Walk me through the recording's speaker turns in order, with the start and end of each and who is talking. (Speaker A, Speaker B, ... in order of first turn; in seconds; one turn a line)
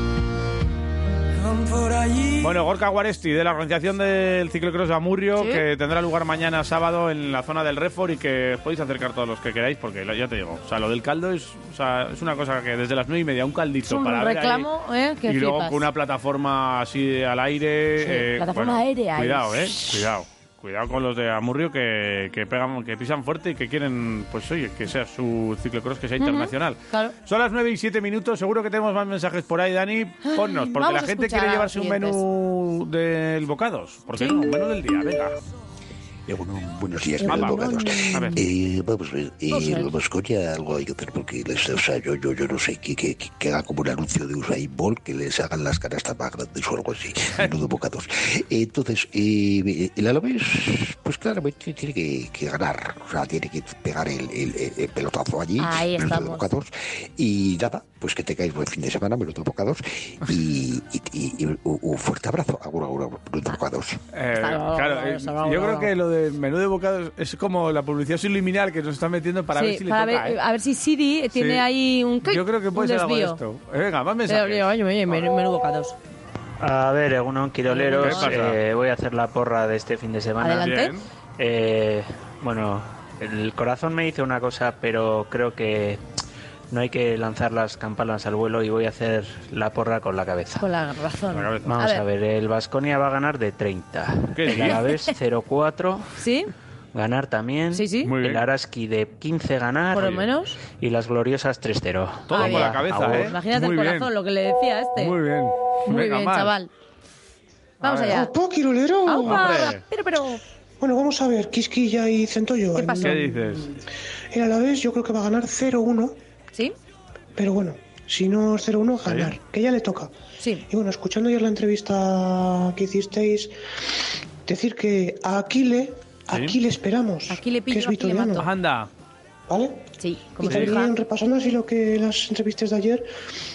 Speaker A: 2.4-14.7
Speaker B: 5.4-5.6
Speaker B: 13.9-15.8
Speaker A: 15.3-35.4
Speaker B: 18.0-20.1
Speaker B: 26.2-27.1
Speaker B: 30.2-32.2
Speaker C: 36.3-64.0
Speaker B: 37.2-38.4
Speaker A: 37.2-38.4
Speaker B: 39.5-39.9
Speaker A: 47.4-47.6
Speaker B: 55.6-56.4
Speaker A: 64.1-70.4
Speaker B: 64.4-65.9
Speaker B: 69.5-73.4
Speaker A: 71.3-71.7
Speaker A: 72.2-75.3
Speaker B: 74.3-76.0
Speaker D: 76.6-80.7
Speaker B: 77.7-78.4
Speaker A: 78.0-78.6
Speaker B: 80.4-80.9
Speaker A: 80.5-81.0
Speaker D: 81.4-86.0
Speaker D: 86.7-90.7
Speaker B: 90.6-92.0
Speaker A: 91.3-91.8
Speaker D: 91.7-96.1
Speaker A: 94.3-94.8
Speaker B: 94.6-95.0
Speaker B: 96.2-96.5
Speaker D: 96.9-103.3
Speaker B: 97.7-98.1
Speaker A: 98.0-98.5
Speaker B: 99.9-100.6
Speaker A: 99.9-100.2
Speaker A: 102.3-104.1
Speaker B: 102.3-105.2
Speaker A: 105.0-106.5
Speaker B: 105.9-106.7
Speaker A: 107.8-108.2
Speaker B: 107.8-108.3
Speaker E: 108.0-109.7
Speaker B: 109.1-110.4
Speaker A: 109.3-109.8
Speaker E: 110.8-113.3
Speaker B: 112.8-113.3
Speaker A: 113.0-113.8
Speaker E: 114.3-116.2
Speaker E: 117.4-120.1
Speaker A: 119.0-119.3
Speaker B: 120.4-120.7
Speaker E: 120.7-123.5
Speaker E: 124.5-128.5
Speaker A: 126.3-126.6
Speaker B: 127.3-128.5
Speaker A: 128.4-128.9
Speaker E: 129.5-133.1
Speaker B: 130.0-130.9
Speaker A: 130.4-130.8